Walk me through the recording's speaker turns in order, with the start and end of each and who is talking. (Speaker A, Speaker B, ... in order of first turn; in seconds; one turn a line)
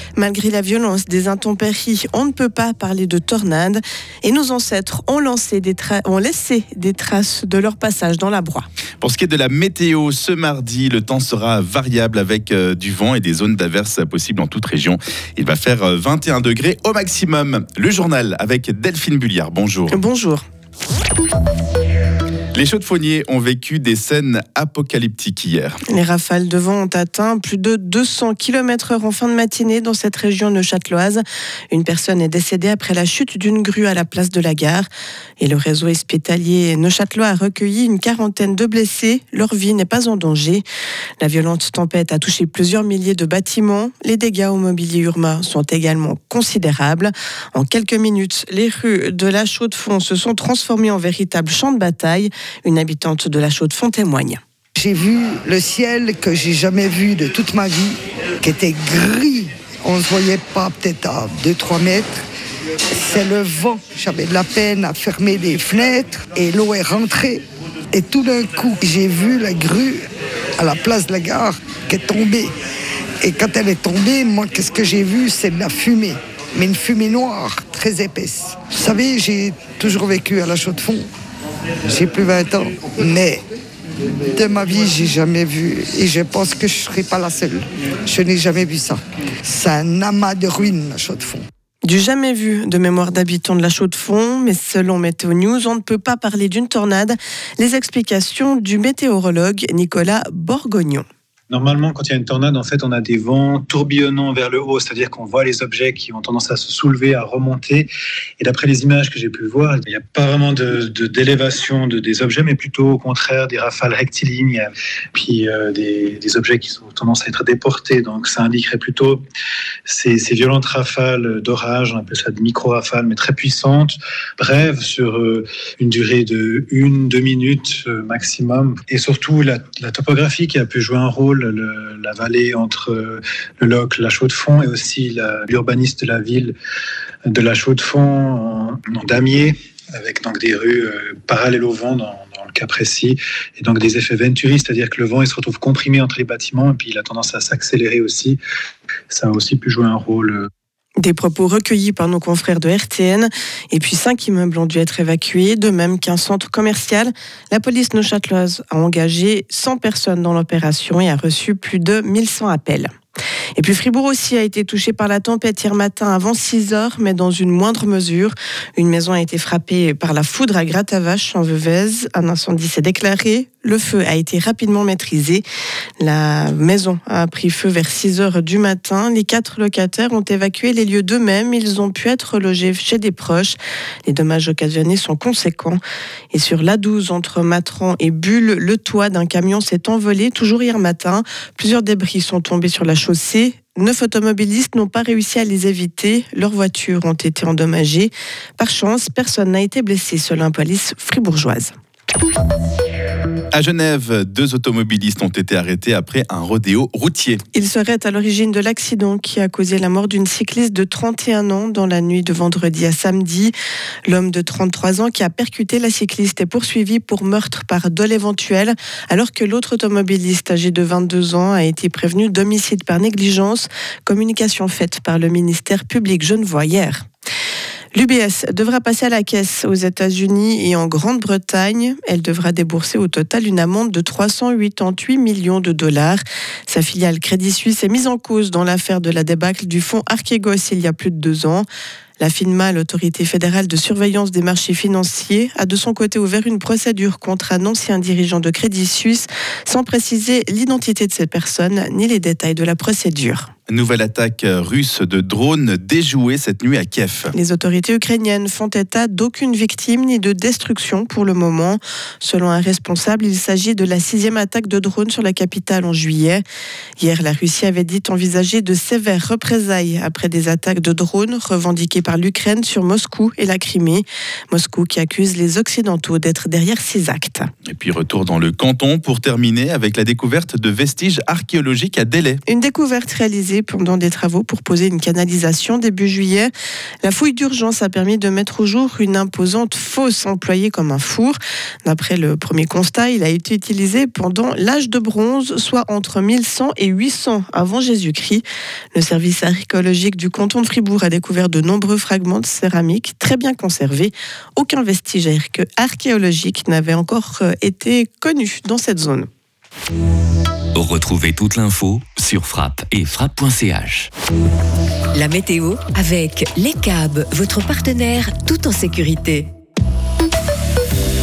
Speaker A: 0.2-8.7
Speaker B: 9.0-20.0
Speaker A: 19.9-20.4
Speaker B: 22.5-25.8
Speaker A: 25.9-34.9
Speaker A: 35.4-40.6
Speaker A: 41.2-54.4
Speaker C: 54.8-62.2
Speaker C: 62.9-70.0
Speaker C: 70.6-72.5
Speaker C: 73.2-81.1
Speaker C: 81.9-83.4
Speaker C: 84.3-91.4
Speaker A: 91.8-101.0
Speaker D: 101.5-107.9
Speaker D: 108.4-119.2
Speaker D: 119.9-136.5
Speaker D: 137.3-148.4
Speaker D: 149.1-150.5
Speaker A: 151.0-162.9
Speaker A: 163.6-175.4
Speaker A: 176.0-185.8
Speaker A: 186.3-201.7
Speaker B: 203.5-207.4
Speaker A: 207.5-213.5
Speaker A: 214.1-227.1
Speaker A: 227.9-241.7
Speaker A: 242.2-253.5
Speaker B: 253.7-257.3
Speaker A: 257.3-266.4
Speaker A: 267.0-277.5
Speaker B: 277.7-282.4
Speaker A: 282.5-286.5
Speaker A: 287.0-309.3
Speaker E: 310.7-314.1
Speaker F: 315.1-319.5